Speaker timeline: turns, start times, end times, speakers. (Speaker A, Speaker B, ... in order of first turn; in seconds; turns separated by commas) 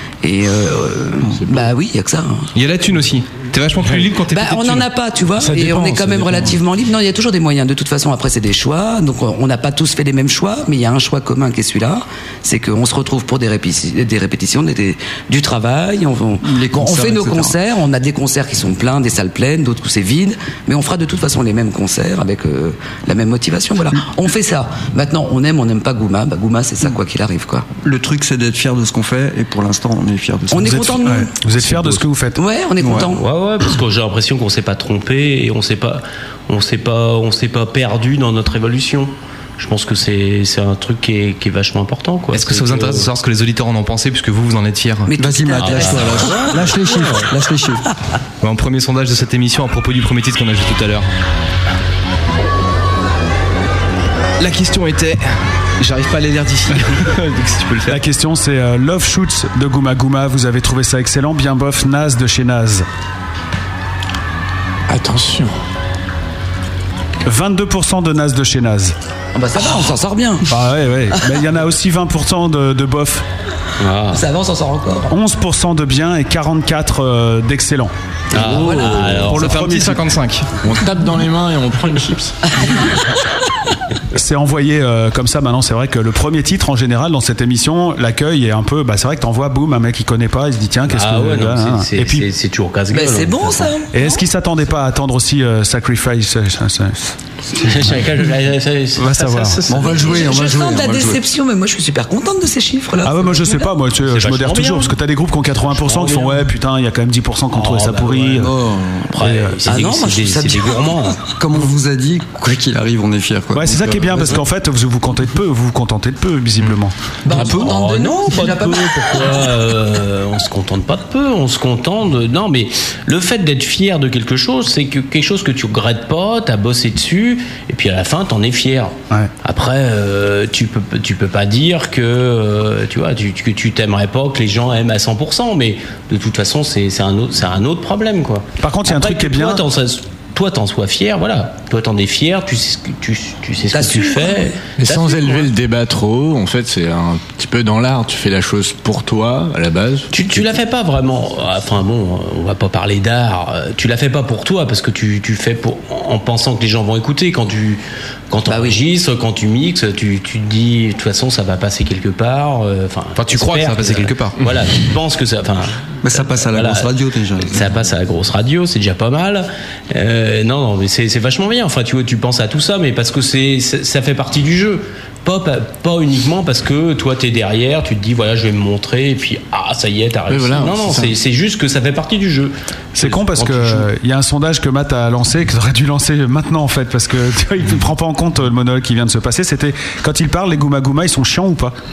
Speaker A: 0.2-2.5, Speaker B: 1.4-1.6, Speaker C: 2.5-4.9, Speaker A: 4.3-27.6, Speaker B: 5.5-6.3, Speaker D: 5.8-6.5, Speaker D: 16.4-17.6, Speaker D: 27.8-31.0, Speaker A: 30.5-31.3, Speaker E: 30.7-32.4, Speaker A: 32.3-33.2, Speaker D: 32.8-33.1, Speaker F: 33.1-43.1, Speaker C: 42.3-45.1, Speaker A: 45.1-46.6, Speaker D: 45.2-47.8, Speaker F: 45.6-46.5, Speaker C: 48.4-51.1, Speaker C: 54.4-55.2, Speaker C: 55.8-58.0, Speaker E: 57.9-62.9, Speaker B: 64.9-65.5, Speaker E: 67.2-68.9, Speaker A: 69.3-70.5, Speaker E: 70.5-73.2, Speaker F: 73.8-74.2, Speaker A: 74.1-75.1, Speaker E: 75.1-77.9, Speaker F: 78.3-79.5, Speaker B: 78.3-79.3, Speaker E: 79.3-80.1, Speaker C: 79.3-80.5, Speaker B: 80.6-82.3, Speaker E: 84.1-92.2, Speaker F: 90.9-93.7, Speaker A: 92.9-94.1, Speaker E: 93.9-97.1, Speaker F: 97.5-100.3, Speaker E: 99.0-99.6, Speaker D: 99.7-101.2, Speaker A: 99.9-103.7, Speaker E: 103.0-108.5, Speaker F: 104.1-104.9, Speaker F: 105.7-106.5, Speaker F: 107.5-108.5, Speaker D: 108.3-109.1, Speaker F: 109.1-111.2, Speaker E: 109.2-109.6, Speaker A: 109.6-111.0, Speaker D: 111.3-114.4, Speaker E: 113.5-116.9, Speaker A: 117.2-119.5, Speaker F: 117.3-145.5, Speaker D: 117.4-117.6, Speaker E: 138.6-139.6, Speaker A: 143.7-144.6, Speaker B: 144.8-150.5, Speaker F: 150.1-166.9, Speaker A: 158.5-158.8, Speaker C: 163.2-164.4, Speaker D: 166.0-167.7, Speaker F: 167.4-183.9, Speaker B: 180.3-181.2, Speaker E: 182.9-191.8